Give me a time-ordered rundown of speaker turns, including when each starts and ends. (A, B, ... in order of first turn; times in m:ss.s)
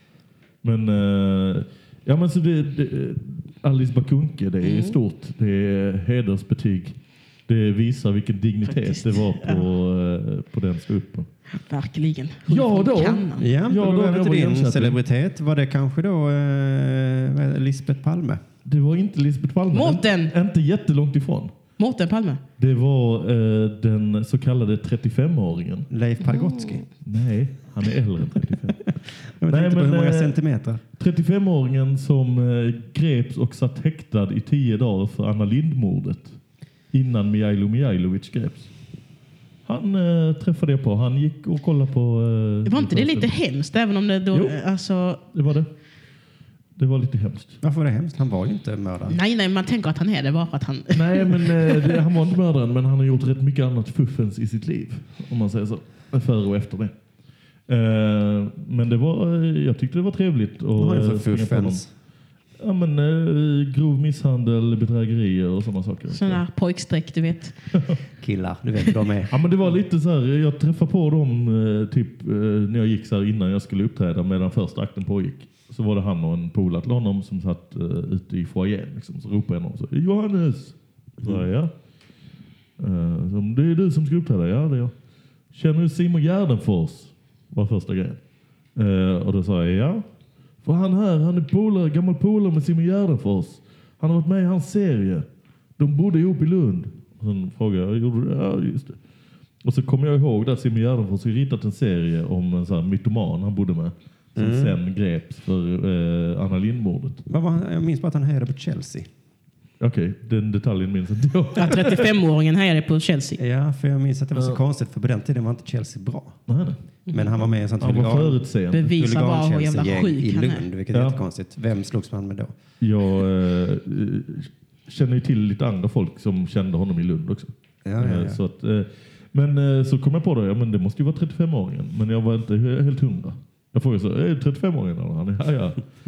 0:00.6-0:06.9 A
0:04.6-0:05.0 B
0:07.5-0:11.3 A
0:08.7-0:09.6 B
0:11.5-0:13.4 B
0:12.5-0:15.0 A
0:13.4-0:18.4 C
0:18.6-0:21.6 A
0:19.7-0:20.3 B
0:21.8-0:22.4 B
0:22.6-0:25.9 A
0:25.9-0:26.8 C
0:26.2-0:26.8 B
0:27.0-0:30.4 A
0:29.4-0:30.8 C
0:31.0-0:36.4 A
0:36.9-0:38.7 A
0:39.6-0:43.3 A
0:42.6-0:45.2 B
0:45.3-0:45.7 A
0:46.8-0:47.6 A
0:47.6-0:49.2 C
0:49.1-0:52.0 B
0:50.9-0:56.9 A
0:57.7-1:01.8 A
1:00.8-1:01.9 C
1:02.6-1:06.4 A
1:06.1-1:07.5 B
1:08.2-1:09.4 C
1:09.3-1:21.7 A
1:22.8-1:24.9 A
1:25.5-1:28.2 A
1:28.8-1:30.0 A
1:30.6-1:35.2 A
1:35.8-1:39.0 A
1:39.6-1:47.2 A
1:44.4-1:44.8 C
1:47.3-1:49.1 C
1:49.8-1:52.1 A
1:51.6-1:53.4 B
1:53.4-1:56.4 C
1:56.5-1:58.9 A
1:57.1-2:02.5 C
1:58.7-2:00.6 B
2:02.8-2:15.8 A
2:07.8-2:08.4 C